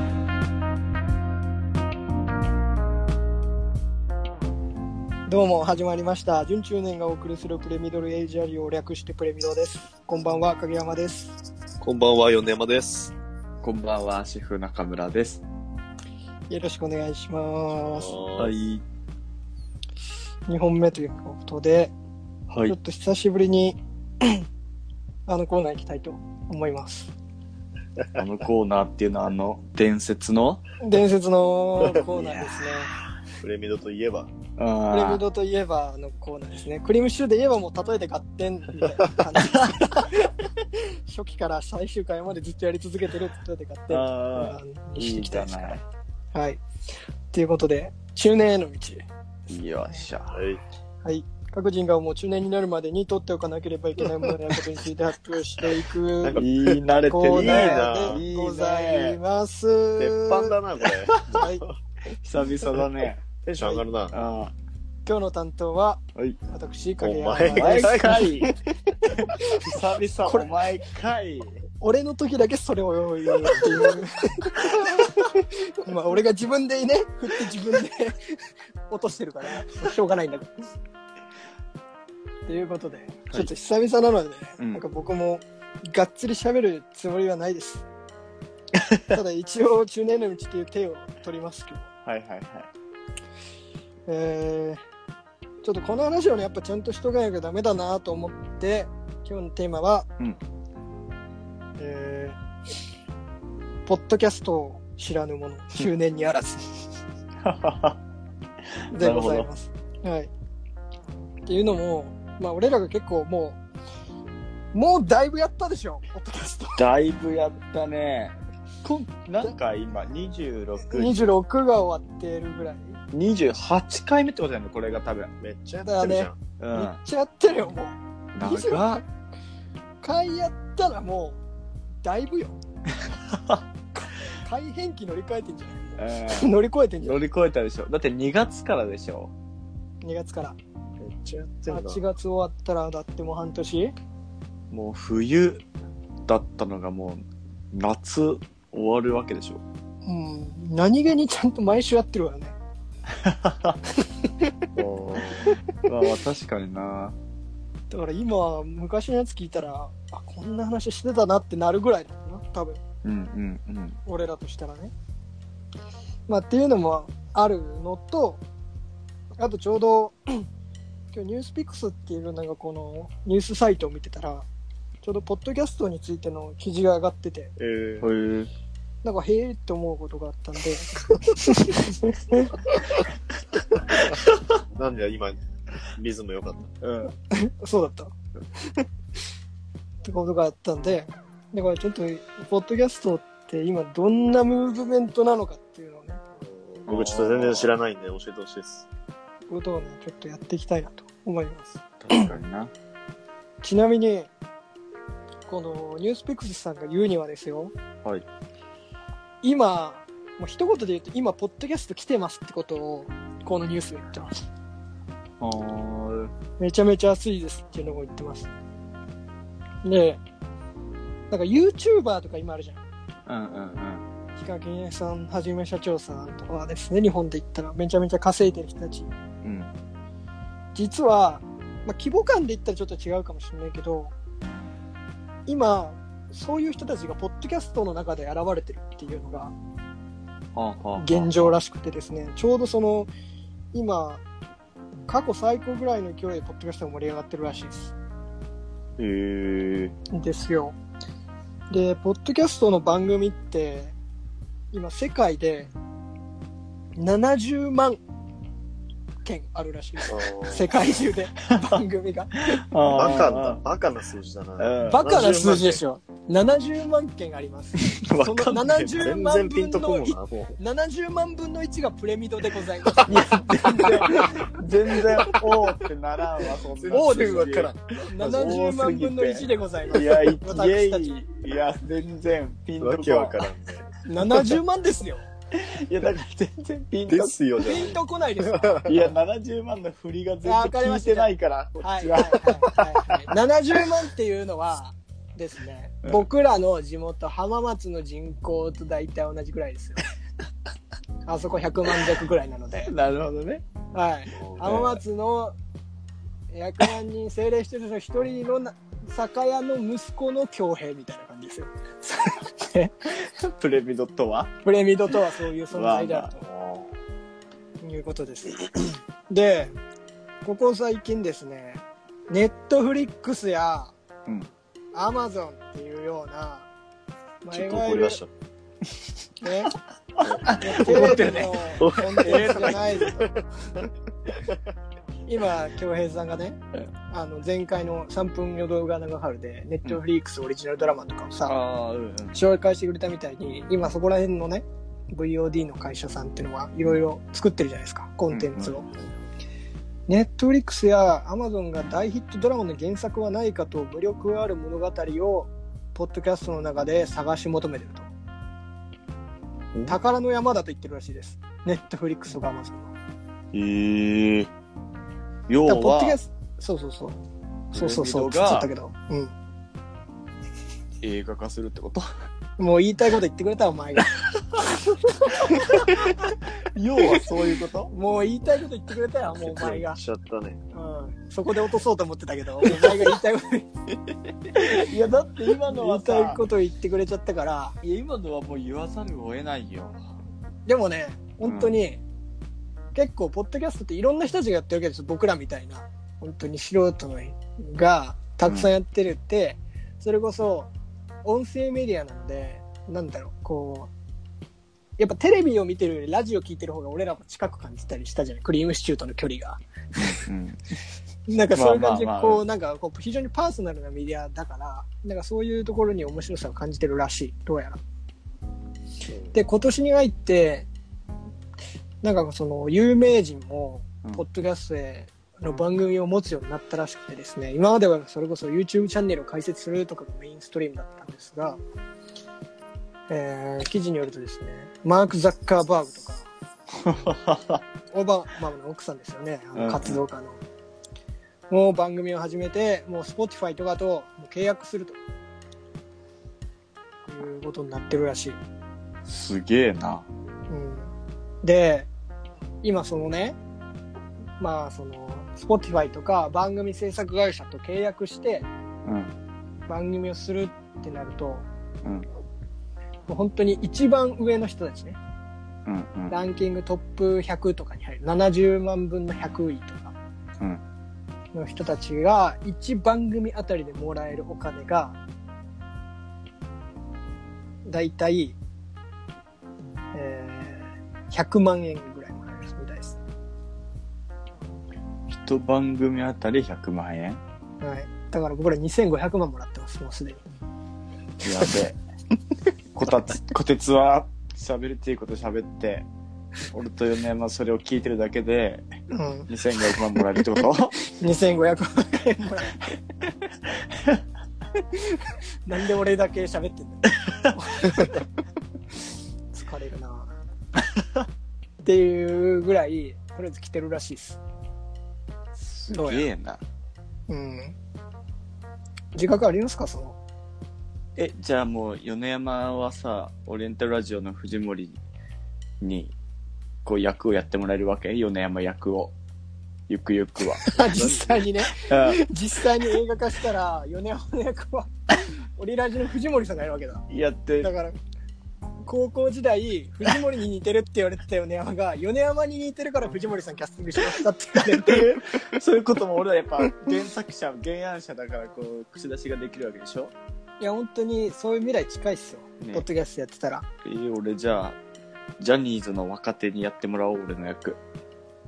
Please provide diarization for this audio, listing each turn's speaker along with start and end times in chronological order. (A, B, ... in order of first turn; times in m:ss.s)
0:05.3-0:11.4 A
0:11.8-0:13.1 B
0:13.6-0:15.4 C
0:16.5-0:18.2 A
0:18.0-0:18.5 B
0:18.4-0:18.8 C
0:20.5-0:21.9 A
0:22.5-0:22.8 C
0:22.6-0:24.4 A
0:25.3-0:27.1 A
0:28.1-0:30.6 C
0:30.8-0:32.9 A
0:32.1-0:32.5 B
0:33.4-0:34.3 B
0:34.6-0:35.2 C
0:34.9-0:40.2 A
0:39.4-0:40.2 C
0:40.9-0:45.8 A
0:43.9-0:45.8 C
0:46.3-0:46.6 A
0:47.3-0:49.0 A
0:49.5-0:50.4 C
0:50.3-0:50.6 B
0:51.0-0:56.4 A
0:56.2-0:58.2 B
0:56.4-0:59.2 C
0:57.1-1:00.6 A
1:00.0-1:01.7 B
1:01.1-1:01.4 C
1:01.3-1:01.6 A
1:02.2-1:04.5 C
1:03.4-1:04.2 B
1:05.0-1:08.3 A
1:07.0-1:08.5 B
1:07.4-1:11.6 C
1:09.3-1:09.6 A
1:11.8-1:18.4 A
1:18.9-1:20.5 A
1:22.4-1:27.8 A
1:28.7-1:29.0 C
1:29.1-1:31.8 A
1:32.0-1:32.7 C
1:34.1-1:34.8 A
1:35.6-1:40.1 A
1:41.8-1:42.4 A
1:43.8-1:46.7 A
1:47.4-1:48.0 C
1:48.9-1:49.5 C
1:48.9-1:50.3 A
1:51.4-1:53.6 A
1:54.7-1:56.9 A
1:56.8-2:01.3 C
2:00.9-2:03.0 A
2:03.1-2:05.3 C
2:05.4-2:06.4 B
2:05.8-2:09.0 A
2:06.6-2:07.0 C
2:08.3-2:08.8 C
2:10.0-2:11.4 A
2:12.0-2:12.6 A
2:13.0-2:13.6 C
2:14.3-2:17.2 A
2:16.0-2:19.3 C
2:20.0-2:20.6 A
2:21.0-2:22.0 B
2:21.7-2:23.9 A
2:24.7-2:25.6 C
2:26.2-2:29.6 C
2:30.0-2:32.6 A
2:33.1-2:33.8 C
2:34.7-2:37.2 C
2:37.9-2:42.8 A
2:43.0-2:44.0 C
2:44.0-2:44.9 A
2:46.3-2:48.4 A
2:49.4-2:50.5 A
2:51.1-2:54.4 A
2:55.0-2:57.5 A
2:57.6-2:58.1 B
2:58.0-2:58.5 C
2:59.0-3:02.7 A
3:04.7-3:06.7 B
3:06.8-3:07.1 C
3:07.3-3:08.1 A
3:10.0-3:16.2 A
3:16.6-3:18.8 B
3:16.8-3:17.7 C
3:19.5-3:22.3 A
3:22.0-3:22.7 C
3:23.6-3:24.3 A
3:25.4-3:27.7 A
3:29.4-3:34.4 A
3:35.4-3:36.3 C
3:36.6-3:38.5 A
3:39.8-3:40.2 A
3:41.3-3:42.8 A
3:43.3-3:44.0 C
3:44.3-3:49.1 A
3:49.4-3:49.7 C
3:50.7-3:54.1 A
3:55.4-3:59.5 A
4:00.5-4:01.6 C
4:01.0-4:03.1 A
4:03.7-4:04.2 A
4:05.1-4:07.9 A
4:09.0-4:09.9 C
4:10.1-4:10.8 A
4:11.7-4:13.9 A
4:14.7-4:15.7 A
4:17.0-4:18.0 A
4:19.2-4:22.6 A
4:20.1-4:20.9 B
4:22.5-4:23.6 C
4:22.8-4:25.8 B
4:24.6-4:25.1 C
4:24.8-4:34.4 A
4:27.8-4:29.1 C
4:28.9-4:30.6 B
4:33.0-4:43.5 C
4:36.8-4:38.5 B
4:36.9-4:37.5 A
4:38.0-4:41.2 A
4:42.8-4:43.9 B
4:44.0-4:45.2 A
4:45.5-4:47.4 C
4:47.1-4:49.0 B
4:47.6-4:48.8 A
4:48.8-4:52.8 C
4:50.4-5:00.0 A
5:01.2-5:02.9 A
5:02.8-5:03.6 C
5:03.9-5:05.5 A
5:04.3-5:04.7 B
5:04.6-5:05.0 C
5:06.5-5:11.7 A
5:12.3-5:12.9 A
5:13.1-5:14.5 C
5:14.6-5:16.4 A
5:15.7-5:16.3 C
5:16.4-5:16.9 B
5:17.8-5:19.7 A
5:20.4-5:23.9 A
5:24.9-5:26.7 A
5:27.4-5:28.2 A
5:27.5-5:28.3 B
5:29.4-5:29.7 A
5:30.2-5:33.0 C
5:30.2-5:33.9 B
5:30.6-5:33.3 A
5:35.3-5:41.6 A
5:41.4-5:42.4 C
5:42.3-5:48.8 A
5:48.3-5:48.8 C
5:50.1-5:58.1 A
5:59.7-6:00.0 C
5:59.9-6:02.9 A
6:03.5-6:04.5 C
6:05.5-6:06.2 C
6:05.6-6:07.2 A
6:07.7-6:08.7 C
6:07.7-6:09.3 A
6:11.0-6:12.0 C
6:12.6-6:14.1 A
6:14.7-6:16.1 A
6:15.4-6:16.2 C
6:16.7-6:17.9 C
6:17.9-6:20.0 A
6:19.4-6:20.6 B
6:20.7-6:23.7 A
6:24.5-6:26.4 C
6:25.6-6:27.8 A
6:27.8-6:30.0 C
6:30.7-6:32.0 A
6:31.4-6:31.8 C
6:32.9-6:40.7 A
6:41.2-6:43.9 A
6:45.0-6:49.6 A
6:50.0-6:50.6 C
6:51.3-6:57.8 A
6:51.5-6:52.4 C
6:59.3-7:00.7 A
7:02.0-7:11.6 A
7:13.1-7:16.3 A
7:16.7-7:17.6 C
7:17.9-7:20.4 A
7:19.5-7:20.0 C
7:21.5-7:25.0 A
7:27.1-7:28.4 A
7:29.0-7:30.1 C
7:30.5-7:30.9 A
7:31.4-7:31.9 A
7:32.6-7:33.4 A
7:34.4-7:38.5 A
7:38.8-7:39.1 C
7:39.7-7:41.4 A
7:43.1-7:45.0 A
7:45.6-7:46.2 C
7:46.1-7:49.9 A
7:51.3-7:55.0 A
7:57.6-7:58.4 A
7:59.9-8:03.0 A
8:05.1-8:07.2 C
8:07.6-8:10.2 A
8:11.2-8:11.8 C
8:12.7-8:15.9 C
8:16.5-8:18.6 C
8:18.9-8:19.3 A
8:19.3-8:20.8 C
8:20.9-8:22.6 A
8:23.3-8:24.0 C
8:25.4-8:28.0 A
8:29.3-8:30.2 A
8:31.6-8:34.2 A
8:35.4-8:36.4 C
8:35.7-8:36.1 A
8:37.1-8:37.5 A
8:38.9-8:40.0 A
8:41.0-8:44.8 C
8:45.6-8:45.9 C
8:46.6-8:48.9 C
8:49.7-8:52.0 C
8:50.4-8:56.8 A
8:56.9-8:57.5 C
8:57.4-8:57.8 A
8:58.6-9:05.0 A
9:04.5-9:09.9 C
9:10.4-9:13.4 A
9:13.6-9:14.6 C
9:15.2-9:17.6 C